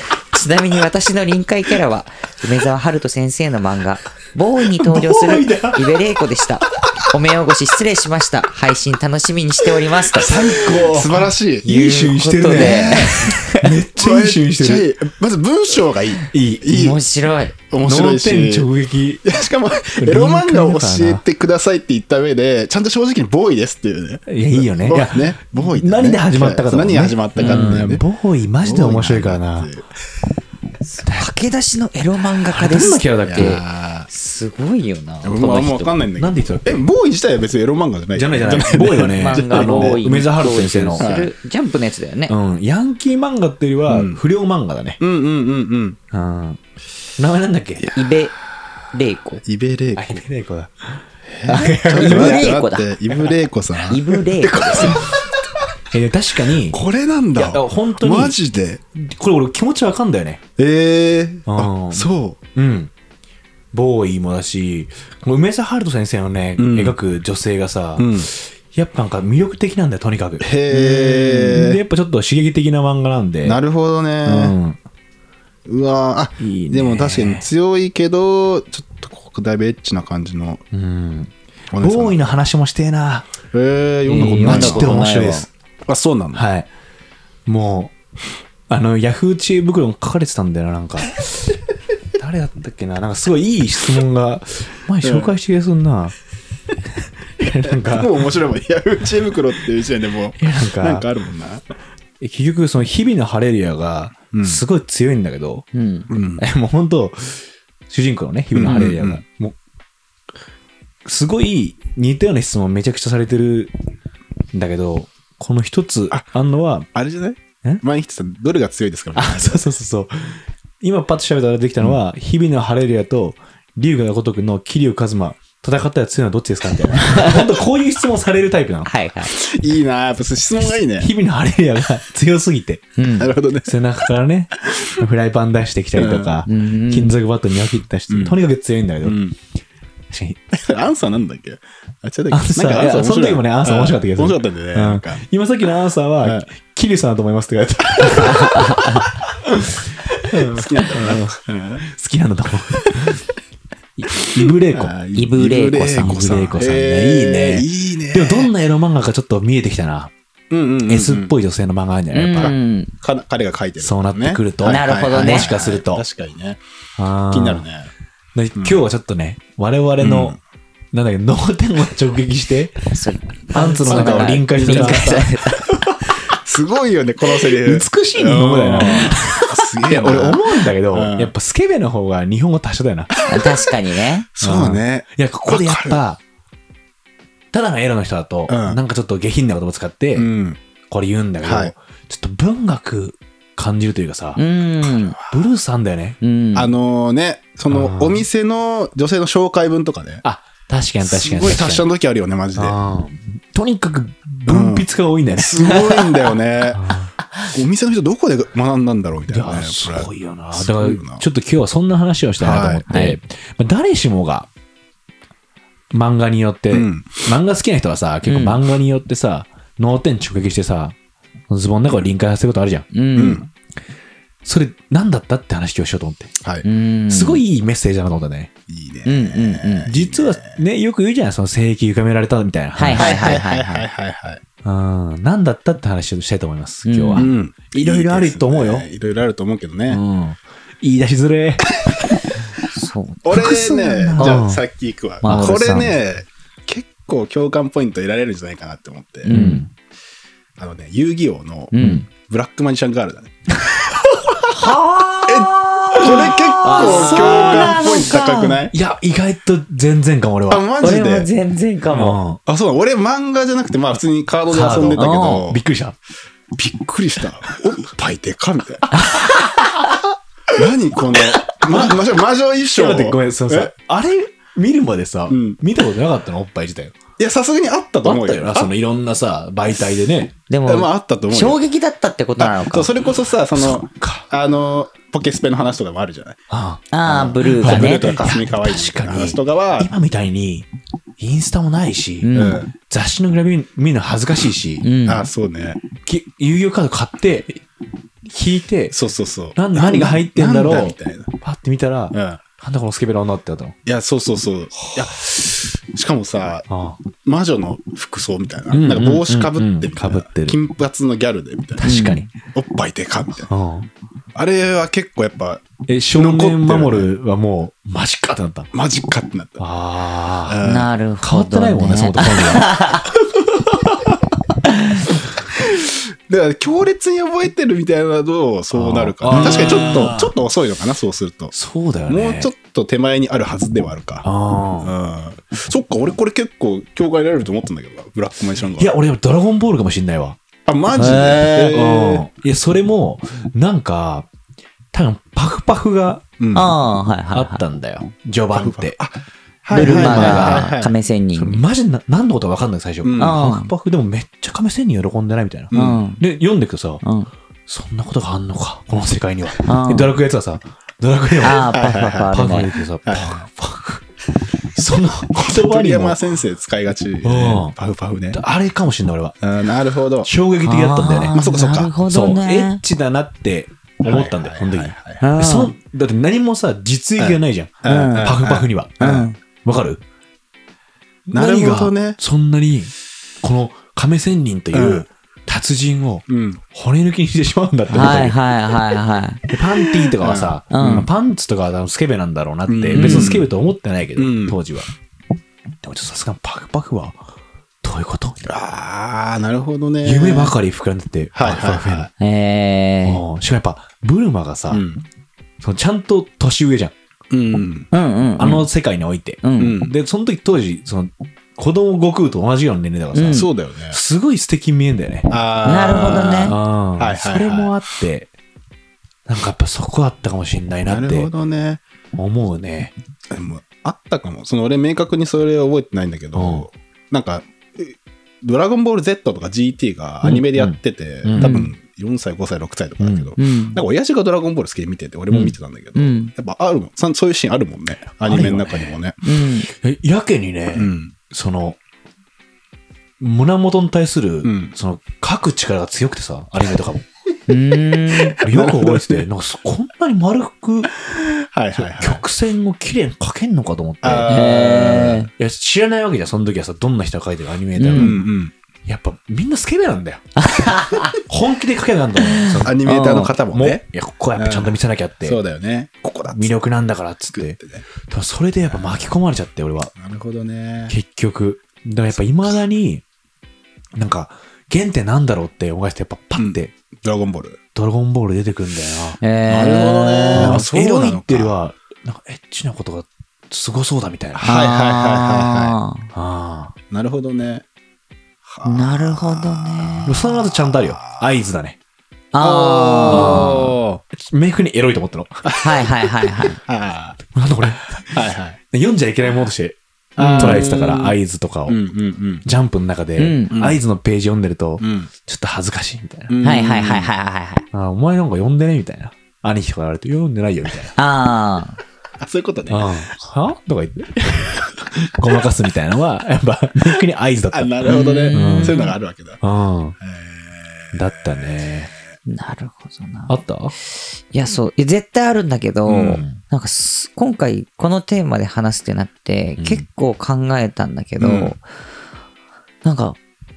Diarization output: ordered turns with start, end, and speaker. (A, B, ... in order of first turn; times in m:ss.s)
0:00.3-0:10.5 A
0:04.7-0:06.0 B
0:10.1-0:14.9 B
0:10.2-0:11.7 C
0:11.6-0:13.6 A
0:12.5-0:13.2 C
0:13.9-0:17.0 C
0:16.3-0:16.7 B
0:16.7-0:17.6 A
0:17.7-0:18.7 C
0:17.8-0:19.2 B
0:19.2-0:28.0 C
0:20.0-0:21.2 B
0:24.3-0:29.7 B
0:27.4-0:27.9 A
0:28.6-0:29.9 C
0:30.8-0:36.0 A
0:32.5-0:33.6 B
0:33.2-0:34.1 C
0:35.2-0:40.2 C
0:36.2-0:36.8 B
0:38.1-0:41.1 B
0:39.2-0:42.4 A
0:41.0-0:41.3 C
0:42.3-0:45.0 B
0:43.9-0:44.2 C
0:45.0-0:46.0 C
0:46.1-0:46.6 B
0:47.2-0:47.9 B
0:47.9-0:48.4 A
0:48.9-0:49.4 A
0:49.5-0:50.2 C
0:50.0-0:52.5 B
0:51.3-0:55.3 C
0:51.5-0:53.0 A
0:53.9-0:55.0 A
0:55.9-0:56.8 B
0:56.7-0:58.8 C
0:57.4-0:58.4 B
0:59.0-1:00.4 B
1:00.6-1:02.4 C
1:01.5-1:02.9 B
1:03.7-1:13.6 B
1:06.6-1:07.0 C
1:08.0-1:08.3 C
1:10.4-1:11.8 C
1:13.4-1:14.6 C
1:14.2-1:14.8 B
1:15.7-1:20.6 C
1:16.4-1:17.5 B
1:20.7-1:23.3 B
1:21.7-1:22.3 C
1:23.5-1:26.5 C
1:24.1-1:25.5 A
1:24.1-1:25.5 B
1:26.3-1:26.7 B
1:27.5-1:27.9 B
1:28.7-1:31.6 B
1:32.2-1:36.2 B
1:35.0-1:35.3 C
1:37.4-1:38.3 B
1:37.7-1:41.6 C
1:40.4-1:41.1 B
1:42.2-1:45.7 B
1:44.3-1:44.6 C
1:45.7-1:46.1 A
1:46.1-1:46.4 C
1:46.4-1:49.6 B
1:48.6-1:49.2 C
1:51.0-1:53.7 B
1:54.5-1:56.9 B
1:56.9-1:59.6 C
1:59.1-2:08.9 B
2:07.1-2:07.4 A
2:07.2-2:07.4 C
2:08.9-2:09.3 A
2:09.3-2:11.1 C
2:11.0-2:12.8 B
2:13.0-2:13.3 A
2:13.2-2:13.7 C
2:13.7-2:19.2 B
2:16.0-2:16.4 C
2:16.5-2:17.2 A
2:18.1-2:18.4 C
2:19.0-2:19.4 C
2:20.1-2:20.4 B
2:20.5-2:25.2 C
2:22.3-2:33.2 B
2:26.2-2:26.5 C
2:28.0-2:28.5 C
2:28.3-2:29.0 A
2:30.2-2:31.9 C
2:34.0-2:35.0 B
2:34.1-2:38.5 C
2:35.2-2:36.2 A
2:35.7-2:40.1 B
2:40.5-2:41.4 C
2:40.9-2:42.5 B
2:42.1-2:42.9 A
2:42.4-2:46.6 C
2:43.8-2:46.0 B
2:44.6-2:45.5 A
2:47.0-2:47.6 B
2:47.3-2:47.9 C
2:48.4-2:50.4 B
2:48.6-2:48.8 C
2:50.0-2:50.4 C
2:50.9-2:52.8 B
2:52.9-2:55.8 A
2:53.5-2:55.3 B
2:53.7-2:55.3 C
2:56.3-3:01.3 C
2:57.6-3:03.1 B
3:03.3-3:04.3 A
3:04.3-3:06.0 C
3:04.4-3:06.2 B
3:07.5-3:10.3 B
3:08.5-3:08.8 C
3:10.2-3:10.6 C
3:10.9-3:14.4 B
3:11.4-3:11.7 C
3:14.4-3:15.2 A
3:15.2-3:16.2 B
3:16.2-3:16.7 A
3:16.6-3:20.2 C
3:17.7-3:18.2 B
3:20.2-3:21.9 B
3:21.0-3:22.8 C
3:22.6-3:25.8 B
3:24.5-3:26.8 C
3:25.6-3:26.0 A
3:26.6-3:27.1 B
3:27.5-3:31.2 C
3:29.3-3:34.5 B
3:32.4-3:32.9 C
3:32.9-3:33.2 A
3:35.9-3:41.0 B
3:36.7-3:37.3 C
3:38.3-3:38.6 A
3:41.5-3:42.9 B
3:42.9-3:43.4 A
3:43.2-3:43.5 C
3:44.4-3:46.3 B
3:46.4-3:46.7 C
3:46.6-3:47.4 A
3:47.1-3:48.5 B
3:48.7-3:50.6 C
3:49.0-3:49.9 A
3:49.9-3:53.4 B
3:52.8-3:53.8 A
3:53.0-3:54.4 C
3:54.6-3:58.9 B
3:56.8-3:57.3 A
3:57.2-4:00.0 C
3:59.9-4:02.2 B
4:02.7-4:03.6 A
4:03.2-4:09.3 C
4:03.3-4:04.6 B
4:05.2-4:06.0 A
4:05.3-4:05.8 B
4:09.3-4:09.7 A
4:09.3-4:09.7 B
4:10.6-4:14.4 C
4:11.7-4:12.0 A
4:14.5-4:15.1 B
4:14.6-4:18.6 A
4:15.3-4:18.8 C
4:16.0-4:18.2 B
4:18.7-4:20.7 B
4:20.5-4:21.3 C
4:20.8-4:22.2 A
4:21.9-4:22.4 B
4:22.4-4:25.6 C
4:24.5-4:26.0 B
4:25.0-4:25.4 A
4:26.6-4:28.9 C
4:28.9-4:29.8 B
4:30.5-4:33.7 C
4:31.1-4:32.0 B
4:32.8-4:37.0 B
4:35.3-4:35.6 C
4:37.2-4:38.7 C
4:38.0-4:40.3 B
4:40.5-4:43.0 A
4:40.7-4:41.6 C
4:42.4-4:46.4 C
4:43.5-4:44.3 B
4:46.5-4:46.8 B
4:46.9-4:48.4 A
4:47.0-4:49.9 C
4:47.6-4:54.9 B
4:52.2-4:52.6 A
4:52.4-4:52.7 C
4:54.8-4:55.3 A
4:55.1-4:55.8 C
4:56.0-4:57.6 B
4:58.3-4:59.0 B
4:58.9-5:01.3 C
4:59.6-5:03.8 B
5:02.1-5:02.4 C
5:03.9-5:06.7 C
5:06.7-5:07.0 B
5:07.2-5:11.9 C
5:08.7-5:10.6 B
5:11.8-5:12.3 B
5:11.8-5:12.3 A
5:12.5-5:13.5 C
5:13.5-5:13.9 B
5:14.4-5:15.6 C
5:15.9-5:18.7 B
5:16.2-5:17.1 C
5:18.7-5:19.6 C
5:19.6-5:20.6 B
5:20.5-5:20.9 C
5:20.6-5:23.0 A
5:21.2-5:23.0 B
5:23.7-5:24.0 B
5:24.7-5:25.0 A
5:25.6-5:31.5 C
5:28.7-5:30.3 B
5:29.3-5:30.1 A
5:31.5-5:32.5 B
5:32.1-5:34.3 C
5:34.2-5:34.9 B
5:34.8-5:38.9 C
5:38.8-5:40.4 B
5:40.7-5:42.3 C
5:40.9-5:44.3 B
5:41.0-5:41.5 A
5:44.9-5:46.2 B
5:46.4-5:46.8 C
5:46.5-5:47.6 A
5:47.3-5:49.0 B
5:48.5-5:50.9 C
5:49.7-5:50.7 B
5:49.7-5:51.6 A
5:51.4-5:57.0 B
5:53.0-5:53.4 C
5:53.2-5:53.7 A
5:55.7-5:56.0 C
5:55.7-5:56.2 A
5:57.0-5:57.3 A
5:57.7-6:01.7 B
5:59.6-6:00.1 A
6:01.4-6:02.7 A
6:01.5-6:02.4 C
6:02.3-6:04.0 B
6:03.1-6:03.5 C
6:04.8-6:06.2 B
6:05.3-6:08.4 C
6:07.2-6:07.7 B
6:08.3-6:09.4 B
6:09.4-6:10.3 C
6:10.2-6:11.4 B
6:10.6-6:12.8 A
6:11.3-6:11.9 C
6:12.1-6:20.0 B
6:14.0-6:15.3 C
6:15.2-6:15.7 A
6:17.2-6:19.3 C
6:19.0-6:19.4 A
6:21.3-6:28.4 B
6:21.3-6:22.2 C
6:24.7-6:25.1 C
6:26.3-6:26.6 C
6:27.9-6:29.4 A
6:29.5-6:34.9 B
6:30.1-6:31.1 C
6:30.7-6:31.1 A
6:32.7-6:33.5 C
6:32.9-6:33.4 A
6:34.2-6:34.6 C
6:35.8-6:37.2 B
6:37.8-6:38.6 B
6:38.5-6:40.6 C
6:40.0-6:42.1 B
6:41.4-6:42.1 C
6:42.2-6:43.2 A
6:43.0-6:44.8 B
6:44.7-6:45.0 C
6:45.6-6:47.0 B
6:47.3-6:47.9 C
6:47.9-6:48.7 A
6:48.4-6:55.3 B
6:49.4-6:49.8 A
6:49.6-6:49.9 C
6:53.1-6:53.5 A
6:53.3-6:54.0 C
6:55.3-6:57.8 C
6:55.6-6:56.6 A
6:56.0-6:58.3 B
6:59.3-7:01.3 B
7:00.8-7:01.8 C
7:02.1-7:02.9 B
7:03.3-7:19.2 C
7:06.4-7:06.7 B
7:10.3-7:11.7 B
7:11.4-7:11.7 A
7:13.0-7:13.3 B
7:13.4-7:13.8 A
7:16.0-7:16.3 A
7:18.2-7:19.0 B
7:19.2-7:19.7 A
7:19.7-7:21.8 B
7:20.7-7:21.2 C
7:23.2-7:27.0 B
7:24.4-7:24.7 C
7:27.5-7:28.4 A
7:28.3-7:29.2 C
7:28.4-7:30.9 B
7:31.0-7:32.2 C
7:31.7-7:34.3 B
7:34.0-7:35.3 C
7:34.3-7:35.3 A
7:35.3-7:38.3 B
7:37.8-7:38.2 A
7:37.9-7:38.5 C
7:38.9-7:40.2 B
7:40.4-7:41.2 A
7:41.1-7:45.4 B
7:42.2-7:42.9 A
7:42.6-7:43.8 C
7:44.4-7:46.6 C
7:46.3-7:49.9 B
7:47.4-7:47.9 C
7:48.7-7:49.1 C
7:50.0-7:50.9 C
7:50.9-7:53.0 B
7:54.0-7:56.7 B
7:56.4-7:57.6 C
7:57.8-7:59.2 B
7:59.2-8:00.7 A
7:59.5-8:01.5 C
8:00.4-8:04.4 B
8:04.3-8:05.8 C
8:04.4-8:06.1 A
8:06.1-8:06.8 B
8:06.9-8:07.6 C
8:08.5-8:11.3 C
8:08.6-8:10.2 A
8:10.1-8:11.8 B
8:12.3-8:13.8 A
8:12.4-8:14.0 C
8:13.1-8:15.6 B
8:15.5-8:15.8 C
8:15.6-8:16.6 A
8:16.7-8:18.6 C
8:17.3-8:19.8 B
8:20.2-8:22.4 C
8:20.2-8:20.6 A
8:20.4-8:21.8 B
8:22.4-8:26.4 B
8:23.2-8:23.6 A
8:23.5-8:23.8 C
8:24.8-8:25.1 C
8:26.3-8:27.1 C
8:26.4-8:27.7 A
8:27.7-8:30.9 B
8:31.0-8:31.8 A
8:32.2-8:33.0 C
8:32.7-8:37.8 B
8:37.5-8:39.4 C
8:37.8-8:38.9 A
8:38.3-8:38.8 B
8:39.4-8:40.0 B
8:40.0-8:41.8 C
8:40.9-8:41.9 B
8:42.3-8:43.4 A
8:43.3-8:43.7 B
8:43.9-8:51.6 A
8:45.9-8:46.2 C
8:46.0-8:46.4 B
8:49.6-8:49.8 B
8:51.2-8:51.6 C
8:52.8-8:53.2 A